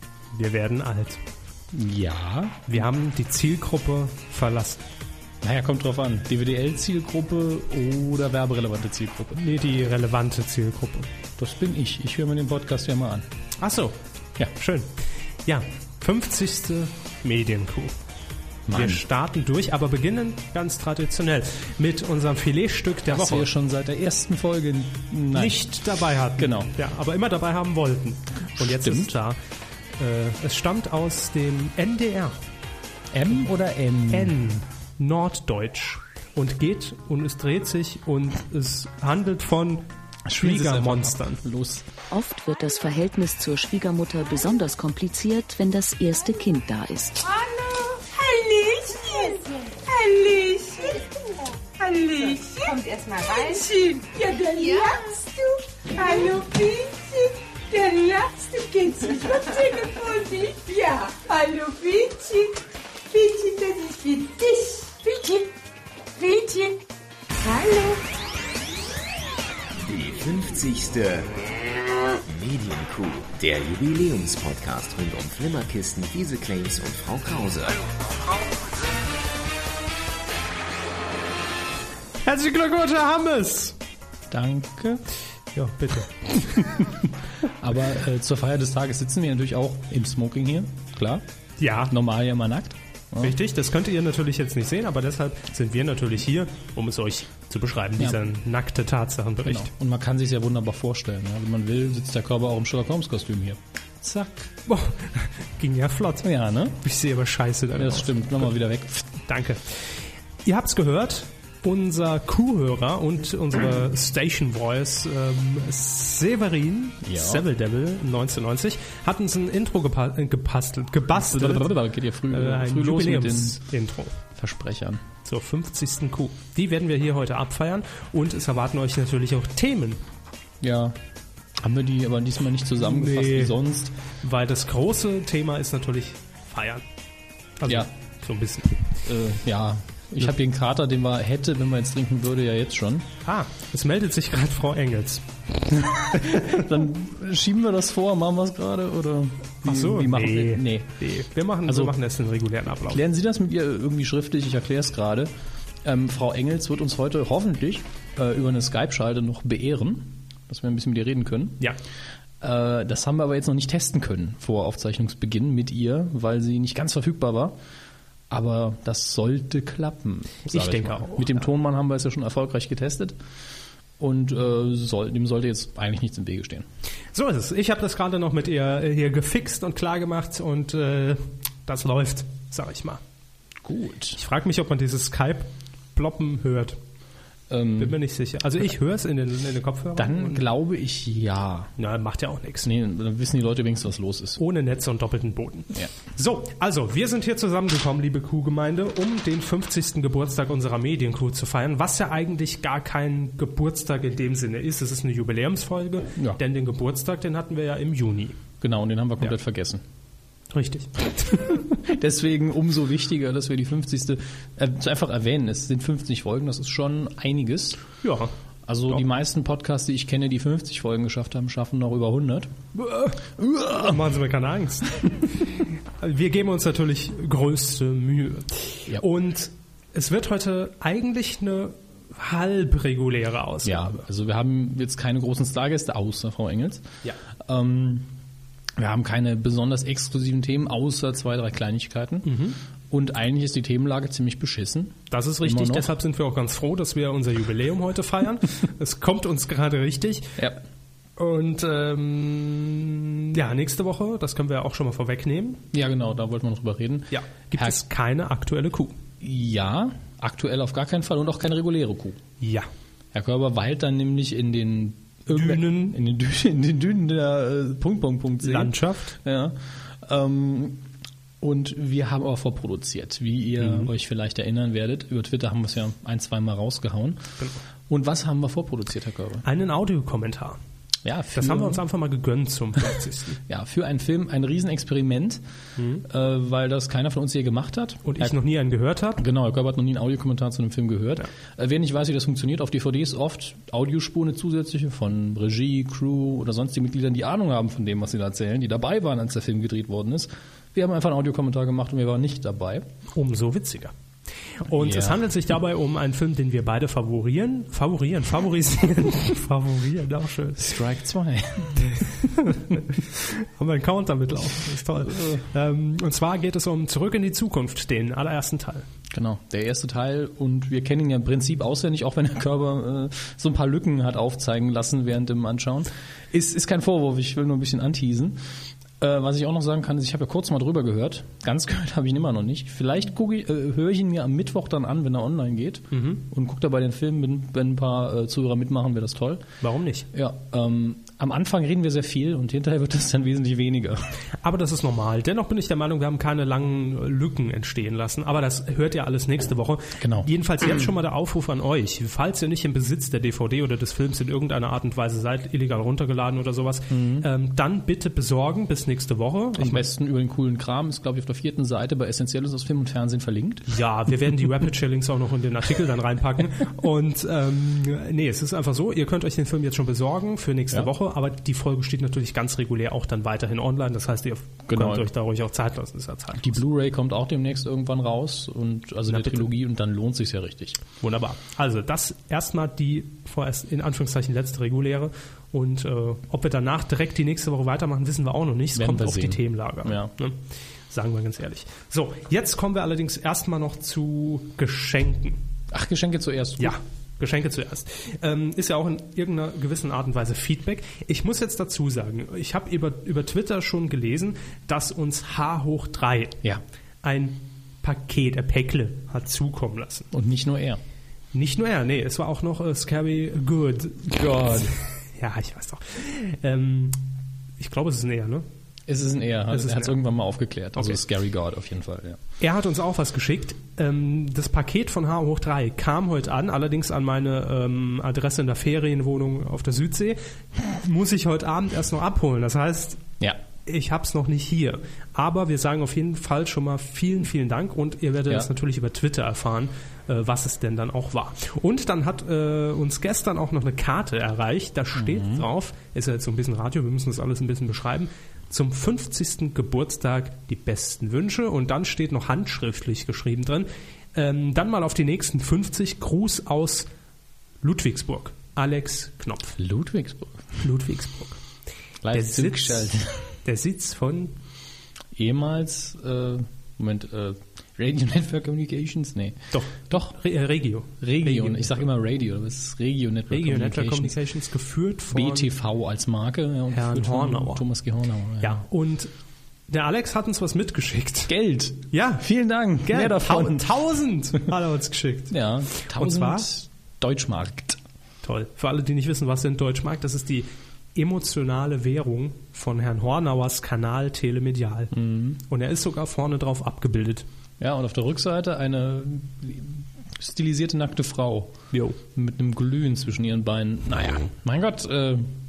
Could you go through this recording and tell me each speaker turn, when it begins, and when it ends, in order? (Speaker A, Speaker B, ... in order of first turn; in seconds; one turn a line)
Speaker A: 0.3-1.2
Speaker B: 1.7-2.8
Speaker A: 2.7-4.8
Speaker B: 5.4-9.4
Speaker A: 9.3-11.1
Speaker B: 11.4-13.3
Speaker A: 13.6-14.0
Speaker A: 14.6-14.9
Speaker A: 15.5-17.9
Speaker B: 18.7-19.0
Speaker A: 18.7-23.5
Speaker B: 23.1-25.6
Speaker A: 25.3-29.4
Speaker B: 26.4-26.7
Speaker B: 28.6-29.1
Speaker A: 30.0-32.4
Speaker B: 33.1-34.4
Speaker A: 34.1-41.4
Speaker B: 40.3-41.9
Speaker C: 42.1-47.3
Speaker D: 47.2-65.5
Speaker D: 66.2-66.8
Speaker D: 67.4-68.0
Speaker E: 69.8-71.5
Speaker E: 72.3-78.0
Speaker A: 82.2-83.8
Speaker B: 84.3-85.0
Speaker A: 85.5-86.5
Speaker B: 86.5-91.2
Speaker A: 91.6-92.0
Speaker B: 91.9-93.4
Speaker A: 93.2-99.7
Speaker B: 99.5-104.5
Speaker A: 104.7-106.3
Speaker B: 106.2-106.8
Speaker A: 106.8-108.5
Speaker B: 107.7-109.2
Speaker A: 109.2-121.7
Speaker B: 117.0-117.5
Speaker B: 121.1-123.6
Speaker A: 122.3-124.2
Speaker B: 124.4-125.0
Speaker A: 125.2-130.0
Speaker B: 130.6-131.0
Speaker B: 131.6-133.9
Speaker A: 132.8-133.6
Speaker A: 134.2-136.8
Speaker A: 137.6-138.9
Speaker B: 139.0-143.1
Speaker A: 143.2-146.6
Speaker B: 146.0-150.9
Speaker A: 149.6-153.0
Speaker B: 151.7-151.9
Speaker B: 152.9-155.3
Speaker B: 155.8-161.6
Speaker B: 162.4-167.6
Speaker B: 168.3-173.2
Speaker A: 170.5-171.4
Speaker B: 174.0-176.7
Speaker A: 177.1-183.0
Speaker B: 183.6-184.2
Speaker A: 184.2-186.8
Speaker B: 187.5-188.0
Speaker A: 187.8-190.4
Speaker B: 190.0-191.7
Speaker A: 191.8-192.7
Speaker B: 192.6-194.4
Speaker A: 194.4-208.4
Speaker B: 208.6-209.8
Speaker A: 210.5-211.6
Speaker B: 211.4-217.8
Speaker A: 218.0-218.3
Speaker B: 218.7-222.5
Speaker A: 222.8-223.2
Speaker B: 223.3-224.1
Speaker A: 223.7-233.9
Speaker B: 233.6-236.9
Speaker B: 237.4-238.1
Speaker B: 238.8-242.4
Speaker A: 242.2-242.6
Speaker B: 242.9-245.9
Speaker A: 245.1-250.3
Speaker A: 251.2-255.6
Speaker B: 255.7-257.8
Speaker A: 257.1-259.0
Speaker B: 259.2-262.2
Speaker A: 262.4-262.7
Speaker B: 263.1-270.9
Speaker A: 265.3-266.0
Speaker A: 268.4-269.1
Speaker B: 271.4-277.2
Speaker A: 273.6-273.9
Speaker B: 277.9-279.4
Speaker A: 279.4-280.6
Speaker B: 281.1-281.8
Speaker A: 281.4-283.4
Speaker B: 283.5-285.4
Speaker A: 285.8-286.0
Speaker B: 286.0-288.4
Speaker A: 288.1-289.2
Speaker B: 289.2-302.9
Speaker A: 303.1-303.9
Speaker A: 304.6-310.8
Speaker B: 304.8-305.2
Speaker B: 310.6-312.0
Speaker A: 311.8-318.9
Speaker B: 314.9-315.4
Speaker B: 319.1-328.4
Speaker B: 329.0-339.4
Speaker A: 335.9-336.2
Speaker A: 339.6-340.1
Speaker B: 340.1-344.0
Speaker A: 344.4-359.9
Speaker B: 350.0-350.3
Speaker B: 356.9-357.3
Speaker B: 359.6-363.7
Speaker A: 363.7-376.6
Speaker B: 374.7-375.1
Speaker B: 376.3-380.8
Speaker A: 379.1-379.5
Speaker A: 381.0-395.4
Speaker B: 388.8-390.1
Speaker B: 395.7-396.8
Speaker A: 396.6-406.4
Speaker A: 407.0-410.1
Speaker B: 410.1-410.8
Speaker A: 411.3-417.0
Speaker B: 414.1-414.8
Speaker A: 417.6-418.4
Speaker B: 418.9-422.2
Speaker A: 419.5-420.0
Speaker A: 420.8-421.0
Speaker A: 422.4-433.1
Speaker A: 433.6-456.9
Speaker B: 444.9-445.5
Speaker A: 457.6-459.6
Speaker B: 459.6-460.4
Speaker A: 460.6-461.4
Speaker B: 462.0-463.3
Speaker A: 462.1-462.9
Speaker A: 463.4-464.4
Speaker B: 465.1-470.2
Speaker A: 469.5-471.8
Speaker B: 471.0-474.2
Speaker A: 473.3-475.5
Speaker B: 475.1-478.6
Speaker A: 476.7-477.6
Speaker A: 478.4-479.1
Speaker A: 479.7-481.3
Speaker B: 481.3-483.7
Speaker A: 481.9-482.3
Speaker A: 482.8-486.5
Speaker B: 485.3-487.8
Speaker A: 488.2-494.9
Speaker B: 494.9-495.4
Speaker A: 495.4-497.2
Speaker B: 497.6-505.3
Speaker A: 501.7-502.0